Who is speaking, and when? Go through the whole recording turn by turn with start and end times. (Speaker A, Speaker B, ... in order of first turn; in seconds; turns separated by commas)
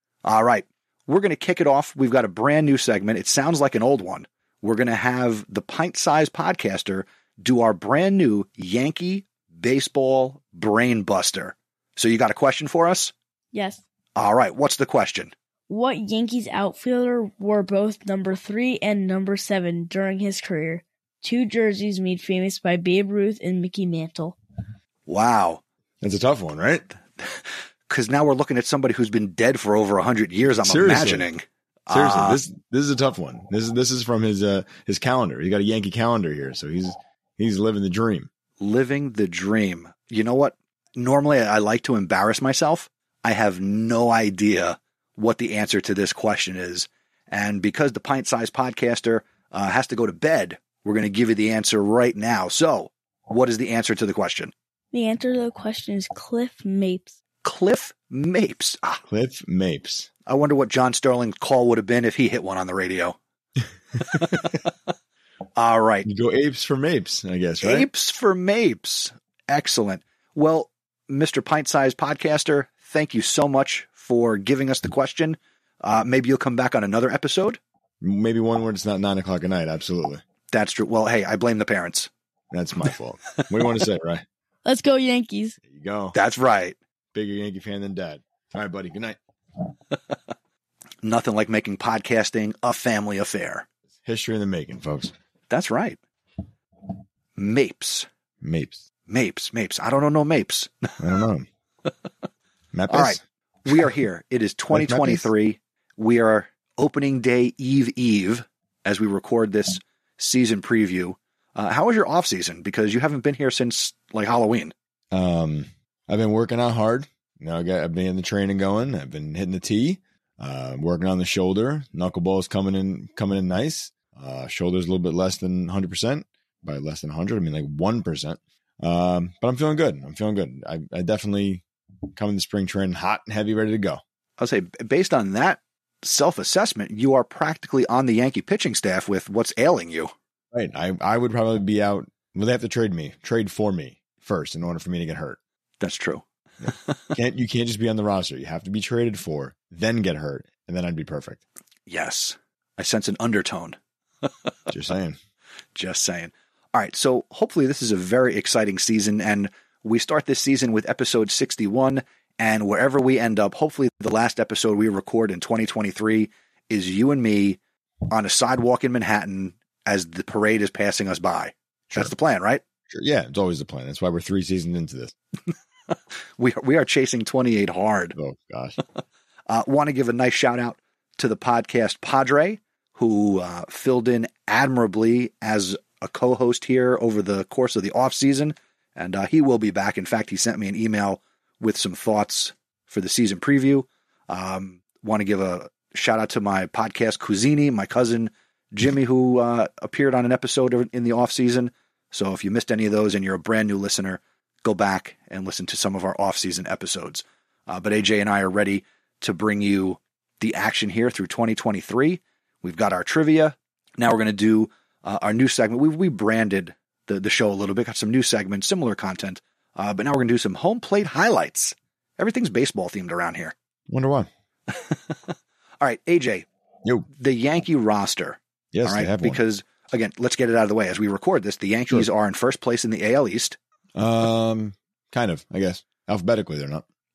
Speaker A: 0.2-13.1, Speaker B: 13.5-13.8, Speaker A: 14.2-15.3, Speaker B: 15.7-24.4, Speaker A: 25.1-25.6, Speaker C: 26.0-26.9, Speaker A: 27.2-32.4, Speaker C: 30.6-31.3, Speaker C: 31.9-38.3, Speaker A: 38.6-54.5, Speaker B: 54.9-57.2, Speaker A: 57.4-59.0, Speaker C: 59.1-60.1, Speaker A: 60.3-63.2, Speaker A: 64.0-64.6, Speaker C: 64.1-64.5, Speaker A: 65.6-66.1, Speaker C: 66.0-67.9, Speaker A: 67.6-77.6, Speaker C: 78.0-80.2, Speaker A: 80.5-82.1, Speaker C: 82.5-84.2, Speaker B: 84.7-85.6, Speaker C: 85.7-86.2, Speaker A: 86.1-86.8, Speaker C: 87.1-89.2, Speaker A: 91.0-93.7, Speaker C: 94.0-95.1, Speaker A: 95.5-96.0, Speaker A: 97.4-98.1, Speaker C: 98.4-98.8, Speaker A: 99.1-101.0, Speaker C: 101.0-101.5, Speaker C: 102.7-103.9, Speaker A: 102.9-114.7, Speaker C: 104.7-105.3, Speaker C: 115.1-131.6, Speaker C: 132.2-134.0, Speaker A: 134.4-140.1, Speaker C: 140.5-145.4, Speaker A: 145.8-147.1, Speaker C: 146.6-151.4, Speaker A: 151.9-154.3, Speaker C: 154.7-155.2, Speaker A: 155.8-172.6, Speaker C: 172.9-175.1, Speaker A: 176.4-178.2, Speaker C: 178.2-178.8, Speaker A: 179.5-223.5, Speaker C: 223.9-224.3, Speaker A: 224.7-225.2, Speaker A: 225.8-226.5, Speaker A: 227.2-233.6, Speaker C: 228.7-229.4, Speaker C: 233.9-236.9